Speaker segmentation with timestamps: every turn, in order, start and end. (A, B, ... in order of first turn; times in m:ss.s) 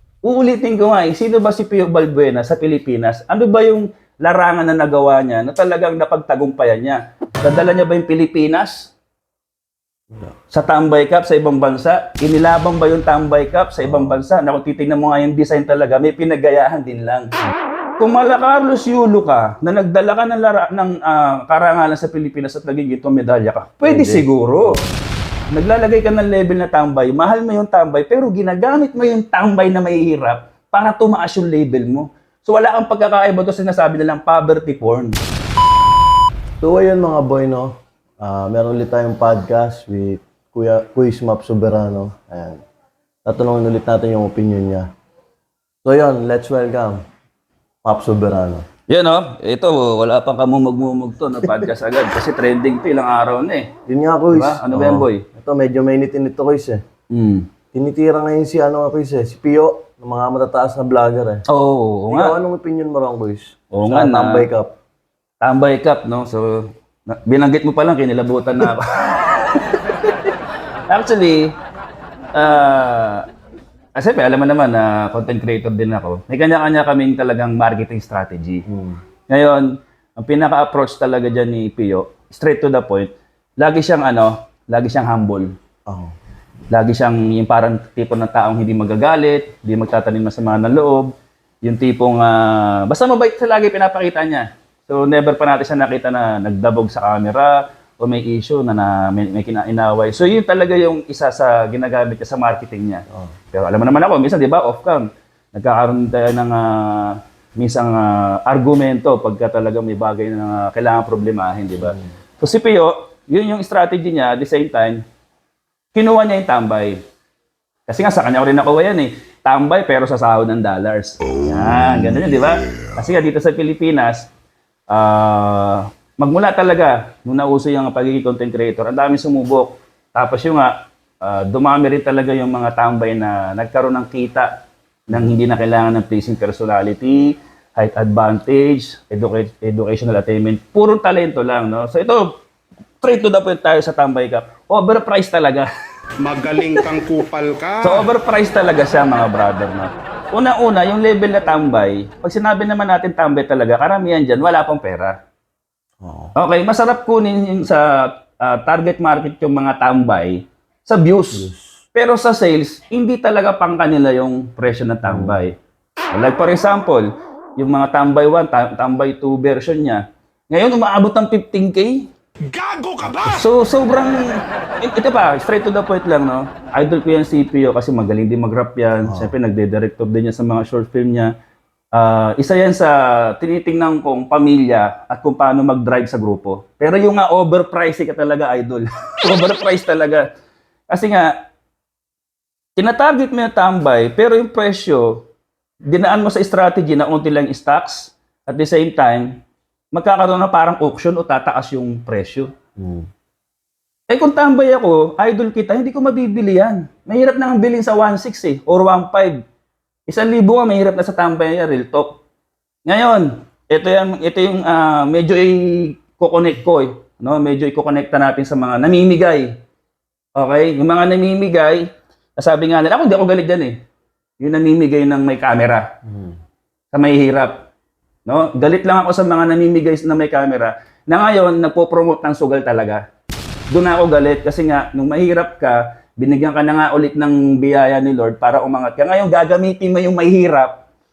0:00.2-0:08.9 A
0:10.5-0:17.3 A
0:13.8-0:14.2 B
0:18.0-0:24.8 A
0:23.8-0:25.0 B
0:25.5-0:35.2 A
0:36.6-0:42.6 B
0:43.2-0:44.9 B
0:45.8-0:47.0 B
0:47.8-0:48.6 B
0:48.9-0:53.7 A
0:53.8-0:56.8 B
0:54.3-0:55.2 A
0:57.1-0:57.5 A
0:57.7-1:01.4 B
1:01.5-1:02.3 A
1:02.1-1:04.7 B
1:03.7-1:04.5 A
1:05.4-1:10.3 A
1:10.9-1:11.5 A
1:12.3-1:13.2 A
1:14.0-1:18.6 A
1:18.7-1:19.0 B
1:19.3-1:25.5 A
1:25.9-1:26.1 B
1:26.7-1:31.1 A
1:31.6-1:55.0 A
1:55.9-1:57.0 A
1:57.9-2:04.3 A
2:04.9-2:14.5 A
2:15.1-2:22.3 A
2:23.0-2:25.7 A
2:26.2-2:28.1 C
2:26.6-2:26.8 A
2:27.8-2:35.1 A
2:36.0-2:36.3 B
2:36.4-2:45.5 A
2:41.3-2:41.7 B
2:45.0-2:45.4 B
2:46.1-2:52.1 A
2:52.5-2:53.5 C
2:53.2-3:01.3 A
2:59.0-2:59.3 B
3:01.9-3:10.3 A
3:10.9-3:11.3 A
3:12.8-3:15.2 A
3:15.9-3:19.4 A
3:19.9-3:22.5 A
3:22.8-3:23.1 B
3:24.1-3:29.4 A
3:30.1-3:32.2 A
3:32.8-3:39.5 A
3:40.4-3:41.8 A
3:42.4-3:43.7 A
3:44.4-3:45.8 A
3:46.1-3:46.3 B
3:46.9-3:47.6 A
3:48.2-3:53.0 A
3:53.7-4:00.8 A